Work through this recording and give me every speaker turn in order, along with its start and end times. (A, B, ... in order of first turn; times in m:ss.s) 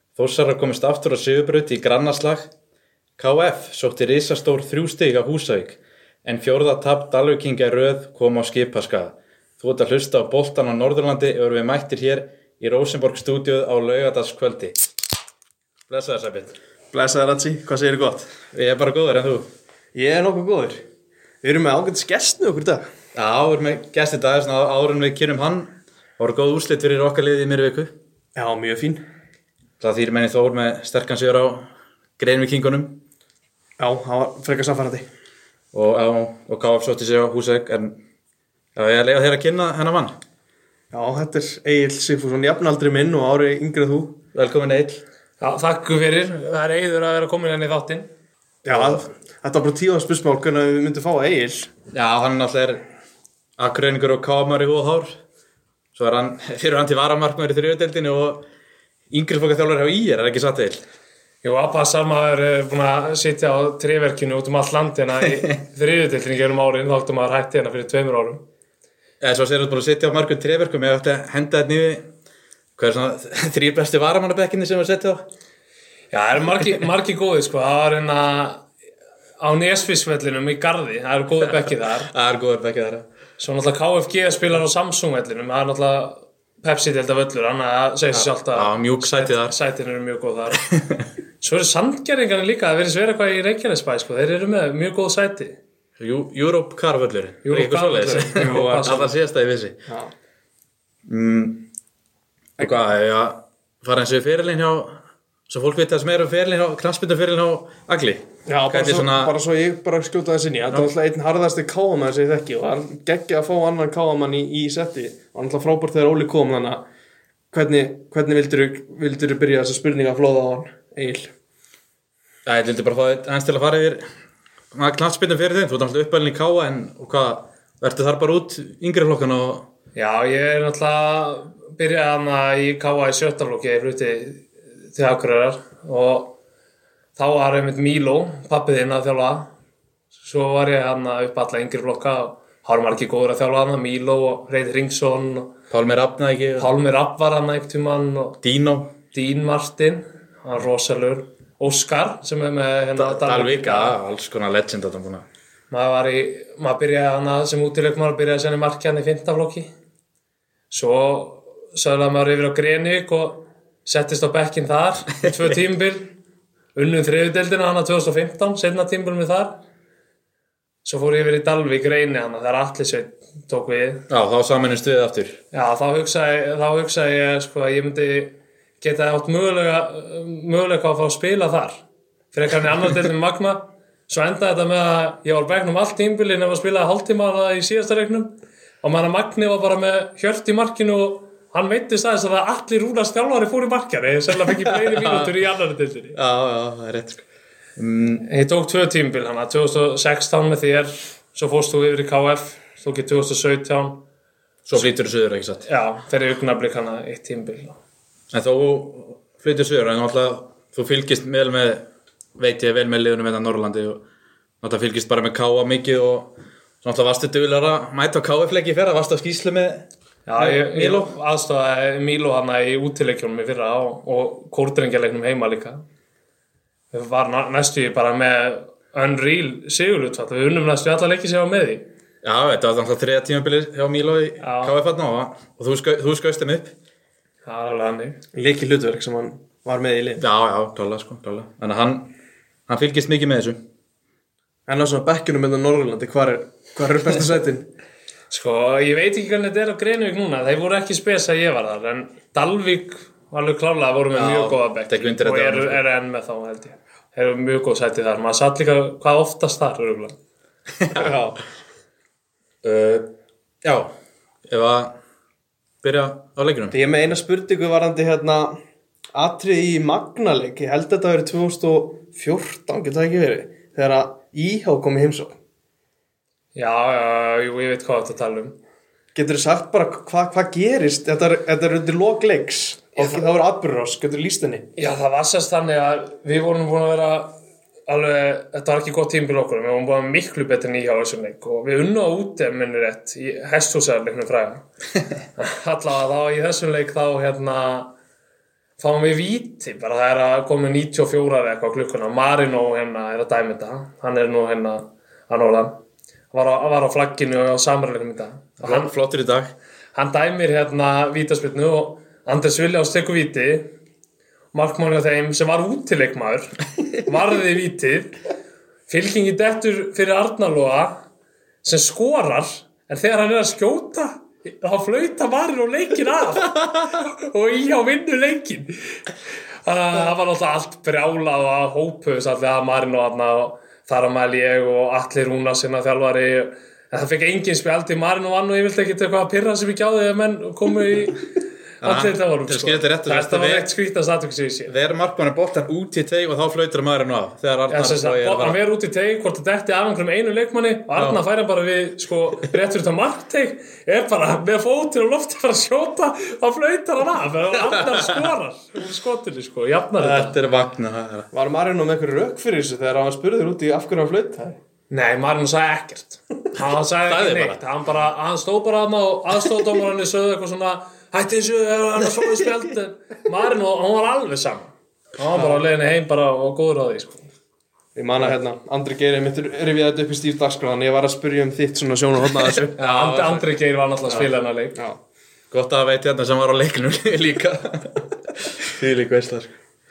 0:00.2-0:02.5 A
0:03.2-0:14.8 A
0:15.9-0:16.6 A
0:16.9-0:18.3 B
0:18.5-0:19.5 A
0:19.9-0:20.8 B
0:21.4-0:22.8 B
0:23.2-0:27.9 A
0:28.4-0:29.0 B
0:29.8-0:31.7 A
0:32.2-0:33.0 A
0:33.8-0:35.1 B
0:35.7-0:38.0 A
0:38.8-0:40.2 A
0:40.9-0:44.2 B
0:44.3-0:45.0 A
0:45.4-0:48.1 C
0:48.6-0:51.7 B
0:48.7-0:49.0 A
0:51.9-0:52.8 A
0:53.6-0:55.2 A
0:56.0-0:58.4 A
0:59.1-1:00.8 A
1:01.4-1:08.4 C
1:09.2-1:12.1 A
1:12.8-1:15.2 A
1:16.1-1:18.6 C
1:19.4-1:22.1 C
1:21.5-1:23.0 A
1:23.4-1:30.7 C
1:28.1-1:29.5 A
1:30.7-1:31.0 A
1:31.4-1:35.6 C
1:36.0-1:39.8 A
1:37.4-1:39.2 C
1:38.4-1:38.9 B
1:39.9-1:40.1 B
1:41.1-1:41.6 A
1:42.6-1:49.3 A
1:48.5-1:56.8 B
1:57.5-2:01.3 B
2:02.5-2:04.0 A
2:04.7-2:09.6 A
2:10.0-2:16.3 C
2:17.2-2:19.5 C
2:20.2-2:25.5 C
2:25.7-2:26.7 A
2:26.6-2:28.4 C
2:28.4-2:28.9 A
2:29.1-2:34.0 C
2:33.0-2:35.2 A
2:35.7-2:39.7 C
2:40.7-2:46.1 C
2:46.8-2:49.6 C
2:50.8-2:54.0 C
2:54.1-2:55.4 A
2:55.5-3:01.8 C
3:02.3-3:16.2 C
3:14.5-3:15.3 A
3:16.2-3:17.2 A
3:17.8-3:18.2 A
3:18.2-3:24.0 C
3:24.7-3:25.6 A
3:25.7-3:27.8 C
3:28.3-3:31.8 A
3:32.4-3:34.0 A
3:34.6-3:39.9 A
3:40.3-3:45.8 C
3:40.6-3:41.1 A
3:46.9-3:51.8 C
3:52.2-3:56.7 A
3:54.4-3:54.8 C
3:57.4-3:58.2 C
3:58.3-4:00.2 B
4:00.2-4:02.1 A
4:02.7-4:03.6 A
4:04.7-4:07.7 B
4:08.3-4:20.2 C
4:14.1-4:15.8 A
4:20.8-4:21.1 A
4:20.9-4:21.4 B
4:22.6-4:23.1 A
4:23.6-4:23.9 A
4:24.5-4:25.0 A
4:25.8-4:26.8 A
4:26.7-4:28.6 B
4:29.1-4:35.4 B
4:36.6-4:38.6 C
4:39.2-4:44.7 B
4:43.0-4:43.2 C
4:44.8-4:47.4 C
4:47.9-4:54.6 C
4:55.4-4:57.9 C
4:58.8-5:05.8 C
5:06.3-5:08.9 C
5:08.6-5:09.5 A
5:09.9-5:13.7 C
5:14.5-5:18.2 C
5:18.9-5:21.0 C
5:21.6-5:29.0 C
5:29.6-5:41.2 C
5:41.8-5:44.7 C
5:41.8-5:43.7 A
5:44.7-5:48.6 A
5:47.7-6:00.4 C
5:57.7-5:58.2 A
6:00.0-6:01.3 A
6:01.3-6:04.6 B
6:04.9-6:17.3 C
6:07.1-6:07.6 A
6:15.3-6:15.6 B
6:18.0-6:22.8 B
6:22.8-6:23.4 A
6:22.8-6:24.8 C
6:24.1-6:25.0 B
6:25.5-6:29.5 A